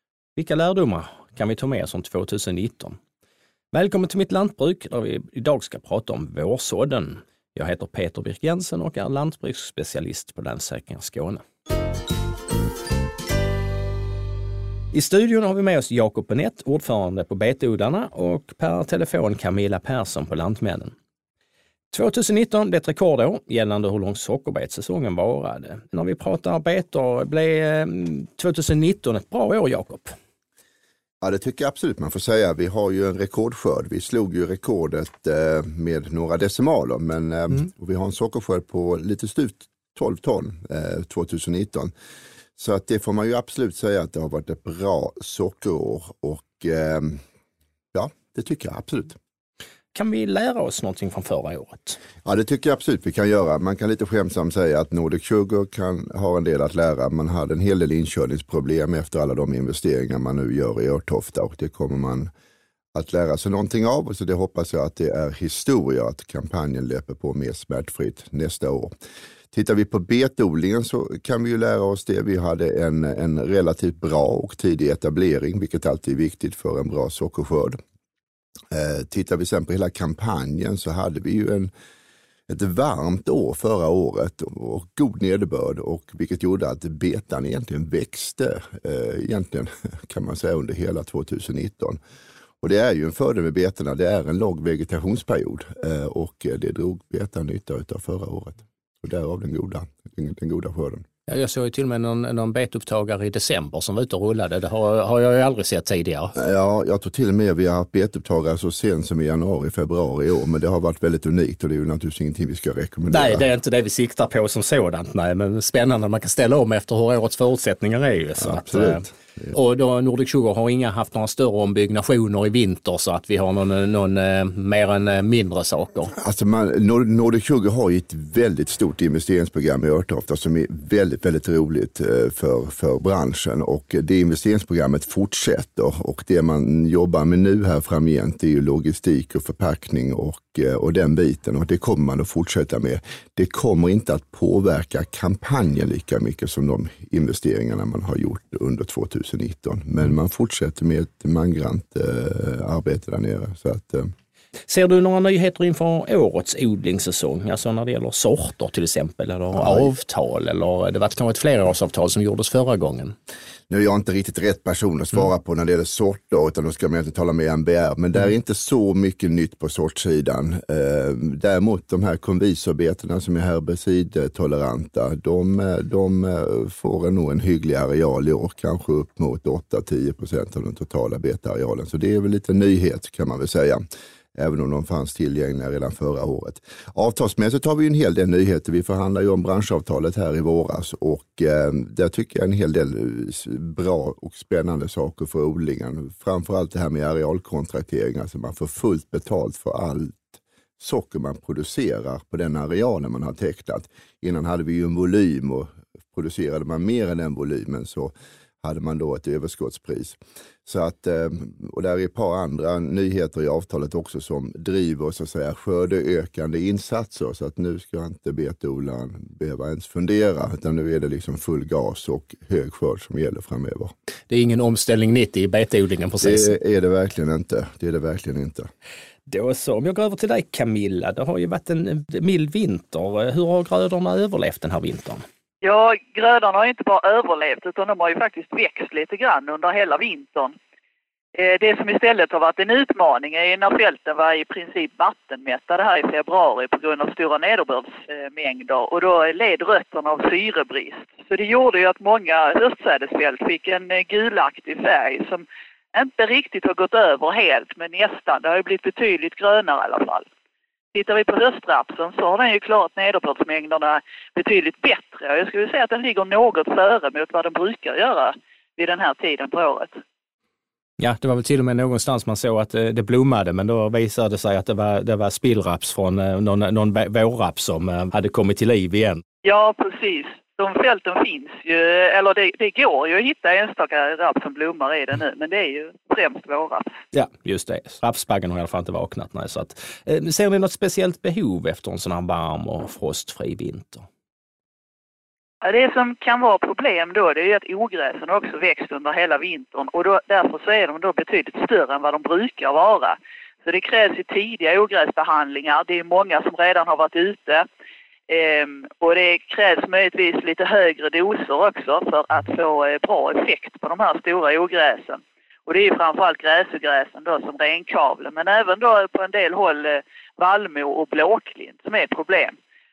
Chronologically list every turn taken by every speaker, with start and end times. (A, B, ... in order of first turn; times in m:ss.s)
0:00.4-0:03.0 A
0:03.7-0:11.4 A
0:14.9-0:20.9 A
0:21.9-0:30.1 A
0:31.2-0:41.9 B
0:42.6-0:47.2 B
0:47.9-0:49.2 B
0:49.9-0:52.0 A
0:52.2-1:02.3 B
1:02.9-1:08.9 B
1:09.5-1:17.8 B
1:18.7-1:21.7 B
1:22.5-1:32.0 B
1:32.6-1:41.0 B
1:41.3-1:46.3 A
1:46.4-1:53.5 B
1:53.1-2:06.1 A
1:58.4-1:59.5 B
2:06.1-2:34.1 B
2:34.7-2:43.1 A
2:39.5-2:39.9 B
2:43.7-3:03.8 B
3:04.4-3:43.9 B
3:44.3-3:46.6 A
3:46.2-3:48.7 B
3:49.3-3:55.2 A
3:55.6-4:00.5 C
4:01.3-4:20.2 C
4:20.9-4:30.0 C
4:31.0-4:39.2 A
4:39.4-4:47.0 C
4:47.1-4:54.1 A
4:55.6-5:07.6 C
5:08.3-5:22.5 C